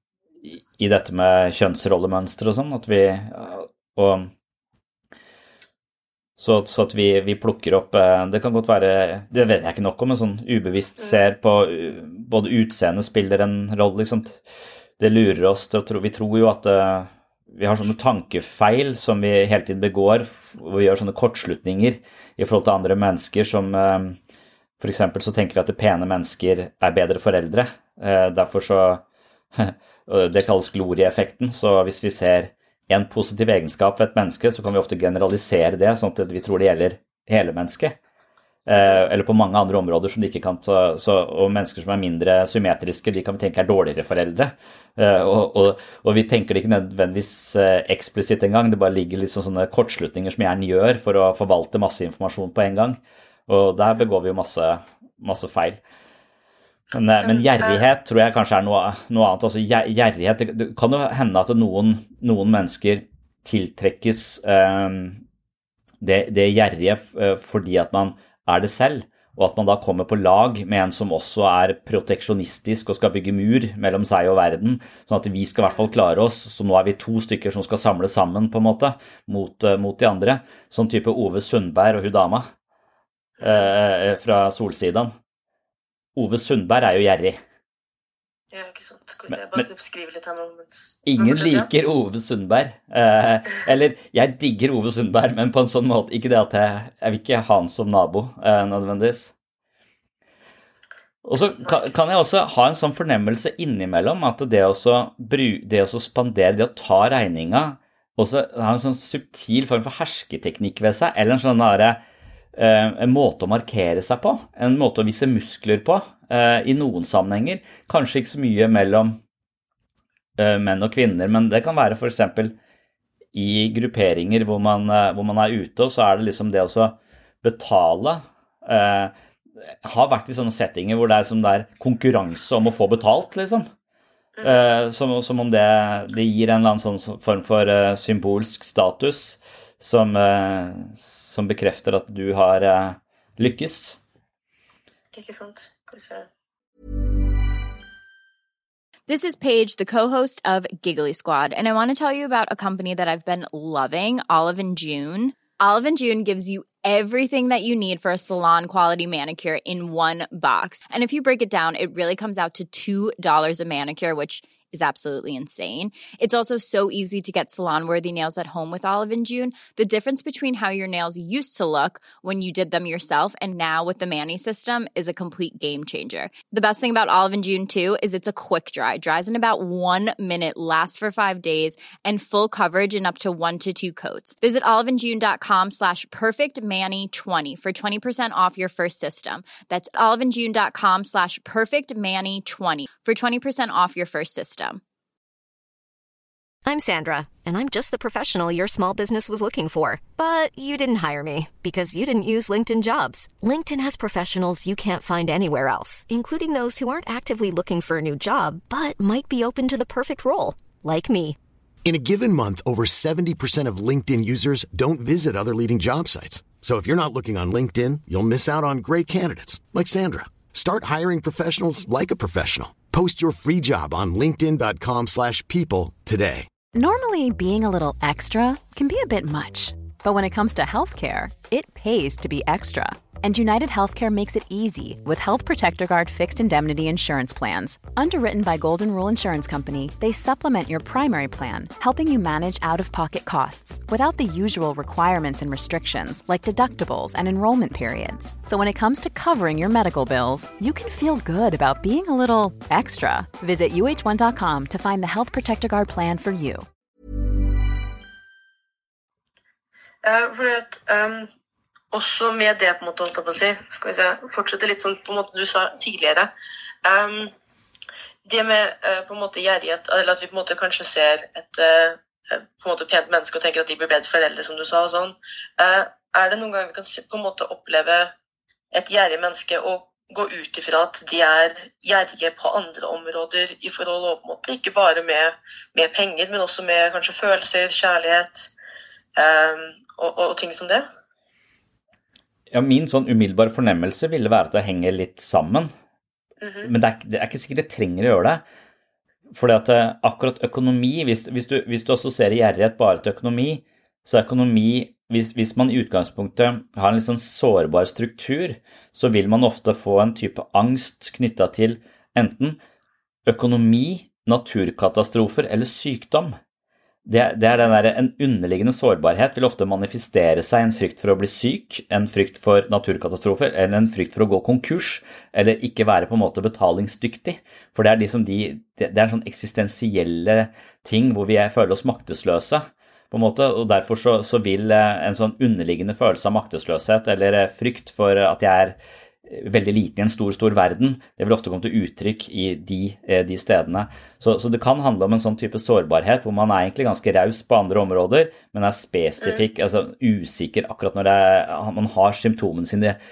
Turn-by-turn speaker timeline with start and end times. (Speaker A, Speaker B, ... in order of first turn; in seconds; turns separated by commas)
Speaker A: 0.4-4.3, Speaker A: 6.4-14.4, Speaker A: 15.0-24.2, Speaker A: 24.8-29.0, Speaker A: 29.5-38.0, Speaker A: 38.6-55.8, Speaker B: 38.7-39.0, Speaker A: 56.9-65.2, Speaker B: 57.2-57.8, Speaker A: 66.0-82.5, Speaker B: 83.4-83.7, Speaker A: 83.4-85.1, Speaker A: 86.2-87.4, Speaker B: 88.5-91.7, Speaker A: 89.3-89.7, Speaker A: 91.0-99.3, Speaker A: 101.2-112.0, Speaker B: 101.6-102.0, Speaker A: 112.5-119.2, Speaker A: 120.4-122.5, Speaker A: 123.3-129.1, Speaker A: 129.7-133.7, Speaker B: 134.4-134.6, Speaker A: 134.4-144.0, Speaker B: 145.1-146.3, Speaker C: 149.1-194.8, Speaker D: 196.6-211.4, Speaker E: 211.8-226.5, Speaker F: 226.7-256.6, Speaker B: 260.0-261.3, Speaker B: 261.9-266.3, Speaker B: 266.8-267.3, Speaker B: 268.2-278.1, Speaker B: 278.7-288.5, Speaker B: 289.1-290.8, Speaker A: 292.5-295.7, Speaker B: 296.4-296.7, Speaker A: 296.6-298.4, Speaker A: 299.3-312.6, Speaker A: 313.2-316.3, Speaker A: 317.1-353.0